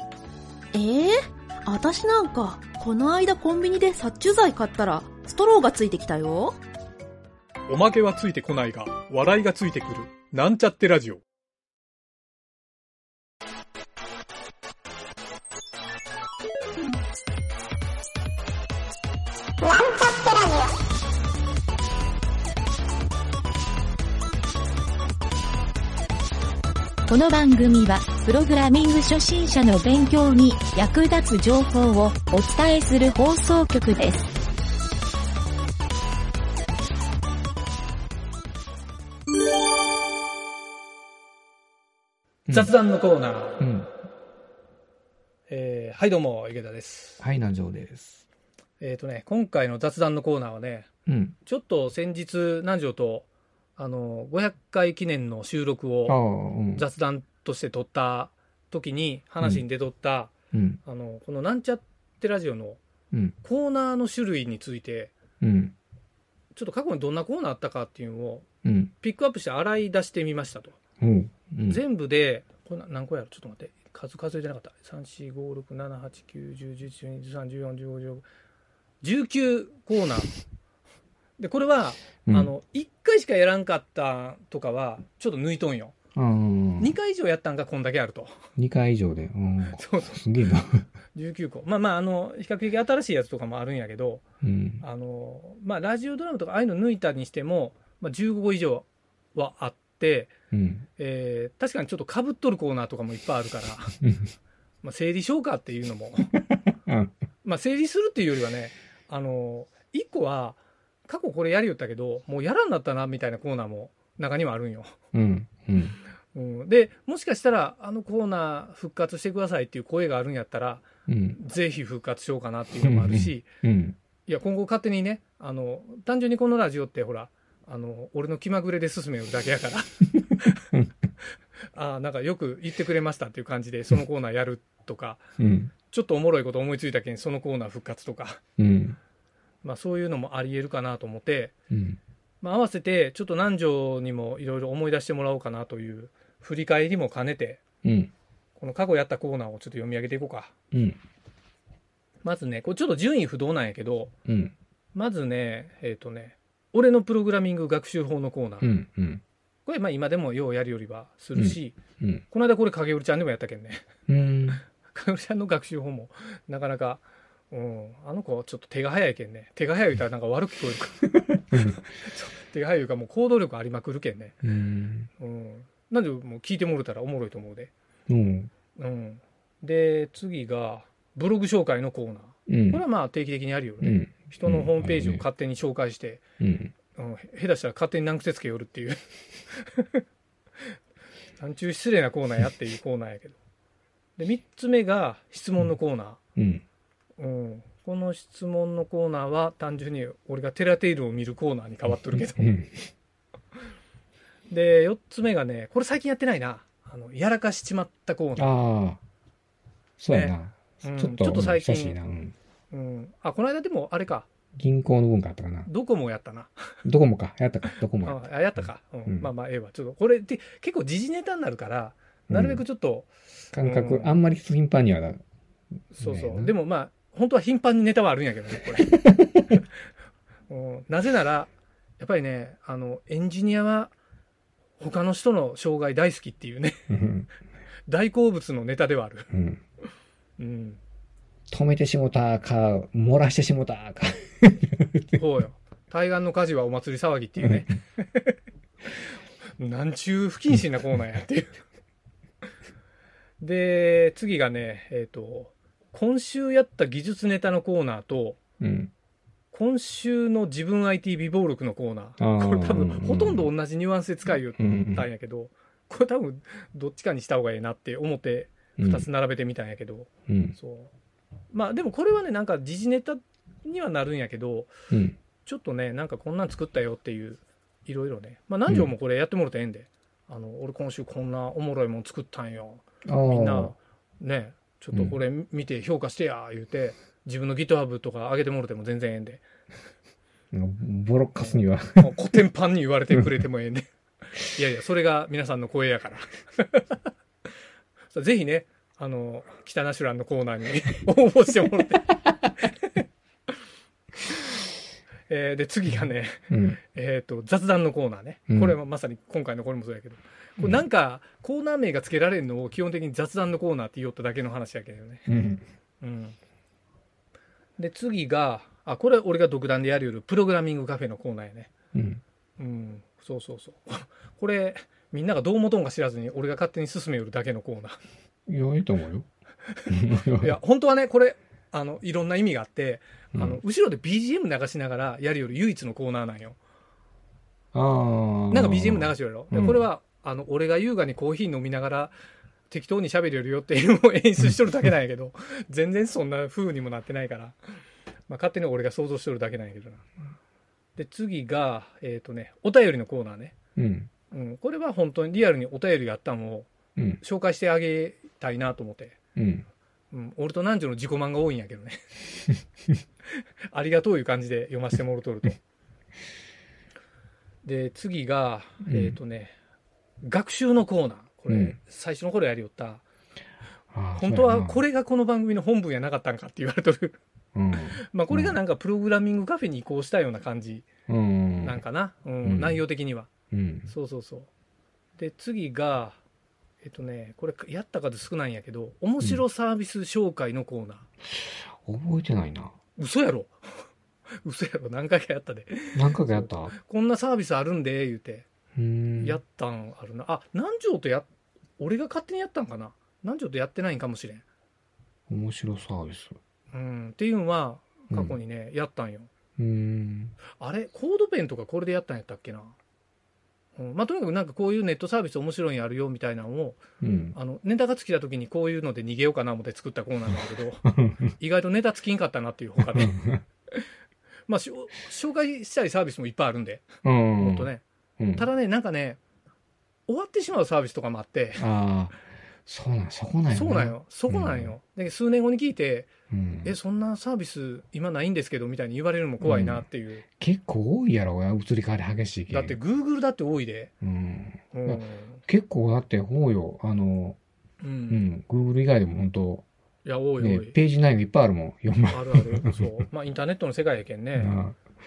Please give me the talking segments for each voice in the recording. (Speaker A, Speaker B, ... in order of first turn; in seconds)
Speaker A: 0.7-1.1, 1.7-6.6
Speaker B: 7.7-11.2, 42.5-43.6, 45.5-47.2, 48.8-50.9, 51.5-56.2, 56.7-60.3, 60.9-62.8, 63.4-65.1, 66.5-68.5, 69.0-70.8, 71.7-78.2, 79.0-80.3, 81.4-85.9, 86.8-88.3, 89.8-90.2, 91.2-94.2, 94.8-100.3, 101.0-104.0, 104.8-106.3, 107.4-115.0, 116.3-123.5, 124.3-130.6, 131.7-135.2, 135.9-138.4, 139.6-141.5, 142.4-147.6, 148.6-150.5, 152.2-154.1, 154.9-158.7, 159.7-161.8, 162.3-163.8, 164.9-174.4, 175.2-177.7, 178.8-186.2, 186.9-189.0, 189.5-190.0, 191.4-193.4, 194.2-196.2, 197.2-202.5, 204.5-208.5, 210.1-212.0, 212.7-214.3, 215.7-216.7, 218.0-223.1, 223.6-224.2, 225.9-229.0, 230.5-233.9, 234.8-236.9, 237.9-239.3, 240.4-240.8, 245.2-248.4, 249.6-251.6, 253.4-258.4, 259.5-270.9, 271.5-274.7, 275.4-289.4, 291.4-293.9, 294.4-297.0, 298.1-303.0, 305.3-315.3, 316.0-316.4, 317.8-321.7, 322.6-328.0, 330.4-336.6, 338.5-342.1, 342.7-347.6, 348.3-350.1, 351.0-353.6, 354.3-356.7, 357.2-359.2, 360.1-362.0, 363.7-365.6, 367.6-369.5, 370.2-373.0, 374.2-377.2, 378.0-380.9, 381.6-383.3, 383.9-384.5, 385.2-386.2, 386.8-391.1, 393.0-393.5, 394.4-398.5, 399.2-401.3, 401.8-404.4, 406.7-409.3, 410.6-412.8, 413.8-416.8, 417.4-423.2, 424.5-427.8, 428.4-429.2, 430.1-431.7, 433.5-436.1, 436.6-440.2, 442.5-443.9, 444.7-445.4, 447.8-448.2, 450.1-450.8, 452.1-454.6
Speaker C: 27.1-34.3
Speaker D: 43.6-43.9, 47.2-48.2, 51.1-51.4, 56.1-56.9, 60.5-60.8, 65.4-65.8, 68.6-68.9, 71.0-71.8, 82.3-82.5, 86.2-87.0, 88.6-90.9, 94.4-94.8, 100.5-100.9, 115.1-116.0, 121.1-121.4, 122.8-124.0, 135.4-135.7, 138.6-139.0, 141.7-142.0, 147.8-148.1, 150.7-151.0, 154.3-154.6, 158.6-159.2, 161.4-162.2, 164.1-164.6, 171.5-171.8, 174.4-175.1, 178.1-178.5, 182.5-182.8, 183.8-185.3, 186.4-186.7, 196.4-196.6, 202.3-202.8, 208.4-209.0, 210.0-212.3, 214.6-215.7, 216.8-218.2, 222.3-222.6, 223.5-225.2, 225.9-226.6, 228.9-229.5, 236.9-237.3, 239.3-239.6, 241.5-245.2, 258.6-258.9, 262.2-263.5, 264.6-265.1, 268.8-269.1, 270.3-270.6, 274.9-275.2, 283.1-283.7, 284.9-285.2, 290.5-292.2, 306.5-306.8, 308.5-308.8, 315.3-315.6, 321.9-322.2, 328.5-329.3, 329.9-330.6, 333.3-333.6, 337.7-339.9, 353.8-354.1, 359.4-359.7, 368.9-369.2, 371.5-371.8, 373.9-374.8, 377.6-378.6, 381.1-381.8, 382.4-382.8, 383.5-383.9, 391.3-392.7, 395.9-396.8, 398.8-399.4, 405.3-406.4, 408.1-408.4, 409.6-410.4, 417.0-417.4, 420.9-421.1, 422.9-423.4, 427.0-428.5, 431.6-434.8, 436.3-436.8, 439.4-442.8, 444.0-447.4, 448.1-449.7, 450.4-452.9, 454.4-454.8